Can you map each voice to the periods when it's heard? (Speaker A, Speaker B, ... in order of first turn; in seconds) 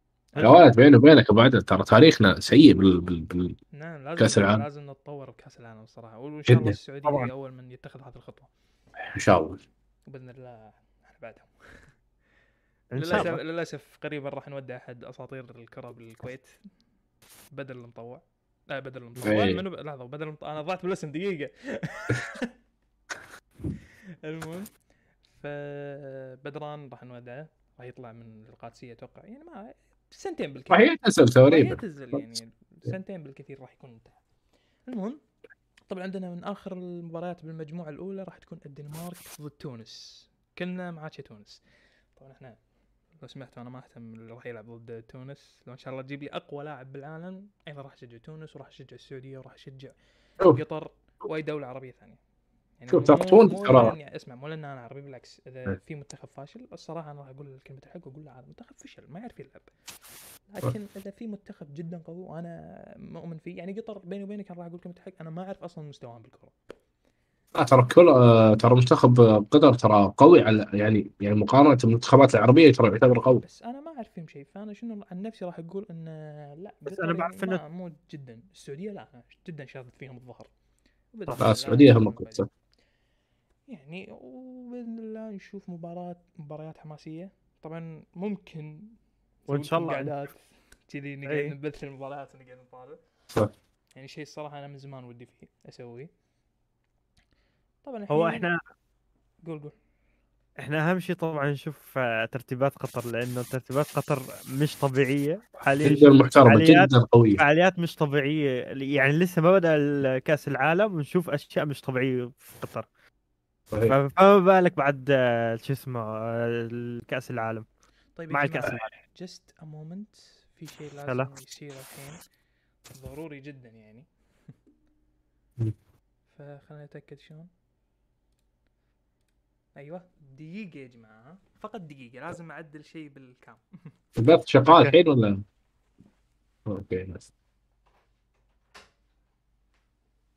Speaker A: 0.3-0.7, 3.7-8.5, 10.1-11.5, 13.0-16.5, 17.5-22.5, 24.2-24.7, 25.3-30.9, 31.5-34.2, 34.9-35.2, 35.9-41.6, 42.2-42.6, 43.2-52.2, 52.8-59.7, 60.5-66.5, 73.4-80.5, 81.1-82.5, 83.7-89.0, 89.5-93.0, 94.0-96.1, 97.8-98.5, 99.5-99.8, 118.2-122.2, 122.9-124.1, 126.3-127.5, 129.8-133.9
Speaker B: 0.4-3.6, 4.2-4.6, 6.5-6.8, 9.1-9.6, 19.2-19.6, 30.7-32.2, 52.9-54.0, 67.5-73.4, 81.4-82.5, 105.8-107.4, 113.7-114.0, 134.2-135.4, 136.7-137.3
Speaker C: 7.0-7.3, 12.9-13.4, 76.9-77.6, 89.5-90.1, 91.3-91.5, 98.1-98.6, 100.6-112.9, 113.9-117.7, 118.3-118.9